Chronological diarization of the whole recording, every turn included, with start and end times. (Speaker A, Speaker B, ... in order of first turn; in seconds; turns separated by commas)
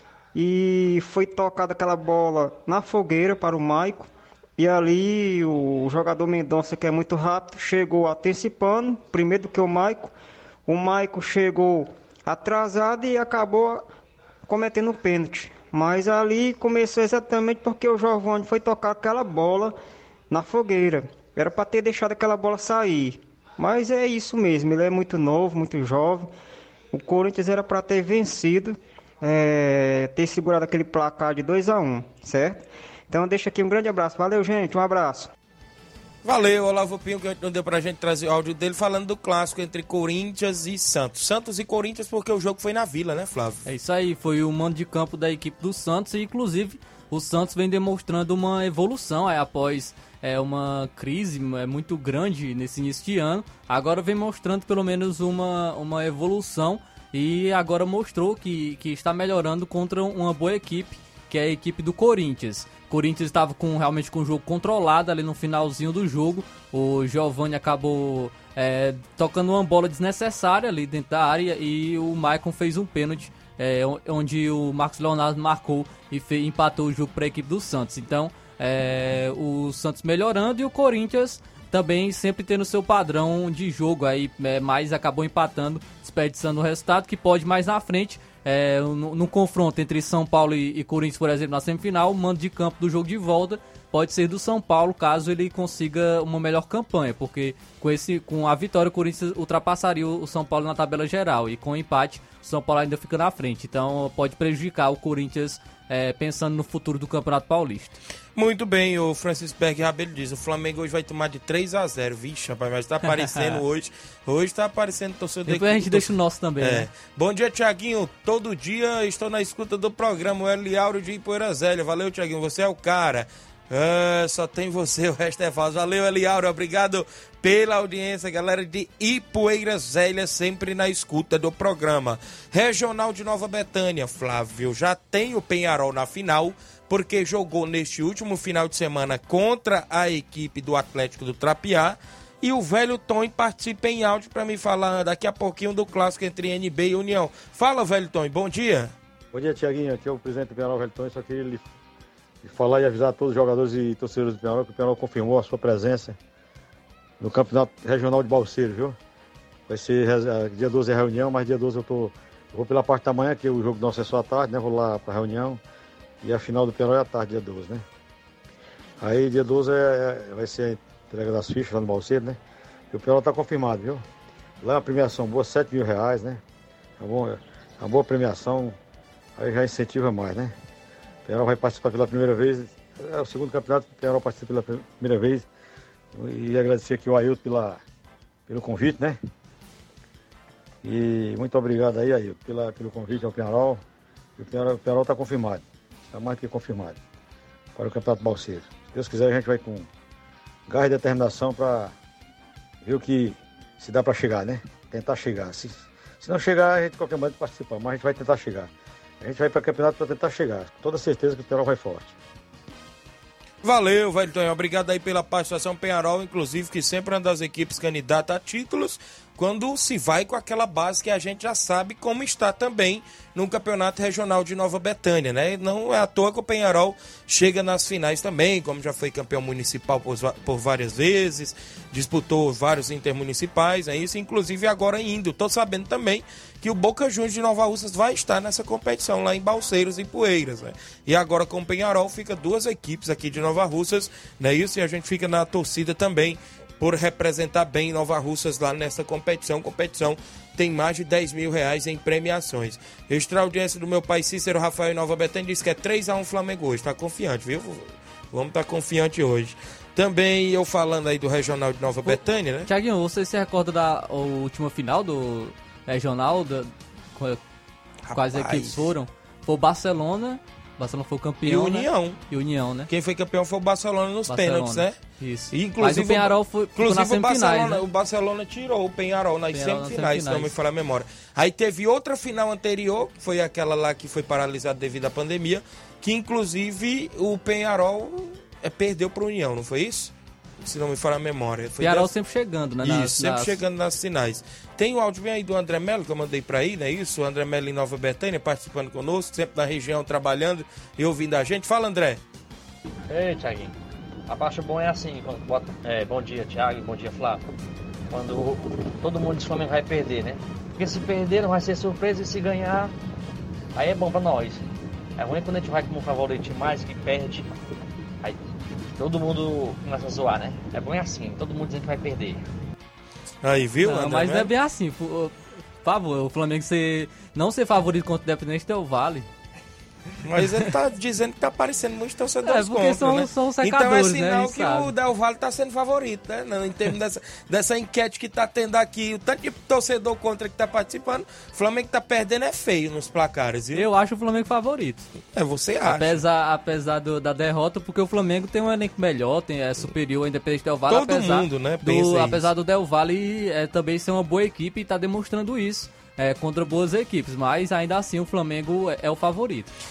Speaker A: 0.3-10.1, Speaker A: 10.7-13.9, Speaker A: 14.5-19.8, Speaker A: 20.3-26.3, Speaker A: 26.9-35.3, Speaker B: 36.2-43.6, Speaker C: 43.7-108.0, Speaker B: 108.3-148.9, Speaker C: 113.0-113.6, Speaker C: 115.5-116.9, Speaker D: 149.3-151.7, Speaker D: 152.4-156.2, Speaker D: 157.2-159.0, Speaker D: 159.7-165.6, Speaker D: 166.2-167.8, Speaker D: 169.0-172.4, Speaker D: 172.9-174.1, Speaker D: 174.6-176.4, Speaker D: 177.0-178.8, Speaker D: 179.4-180.5, Speaker D: 181.3-185.5, Speaker D: 186.2-187.8, Speaker D: 188.5-189.2, Speaker D: 190.8-193.8, Speaker D: 194.4-197.0, Speaker D: 197.8-199.9, Speaker D: 200.7-201.9, Speaker D: 202.8-208.7, Speaker D: 209.2-212.2, Speaker B: 213.6-262.7, Speaker C: 262.1-267.4, Speaker B: 268.1-268.8, Speaker C: 268.1-272.9, Speaker B: 271.4-272.2, Speaker B: 272.9-275.0, Speaker C: 274.3-277.8, Speaker B: 275.5-292.1, Speaker C: 279.5-280.5, Speaker C: 291.8-293.6, Speaker B: 292.8-302.2, Speaker E: 303.1-303.7, Speaker E: 304.3-307.4, Speaker E: 308.1-312.9, Speaker E: 313.8-317.5, Speaker E: 318.2-322.4, Speaker B: 323.4-324.5, Speaker C: 323.8-329.3, Speaker B: 330.2-343.9, Speaker C: 332.4-334.9, Speaker C: 343.8-345.1, Speaker B: 345.3-346.2, Speaker C: 345.9-359.7, Speaker B: 350.9-352.5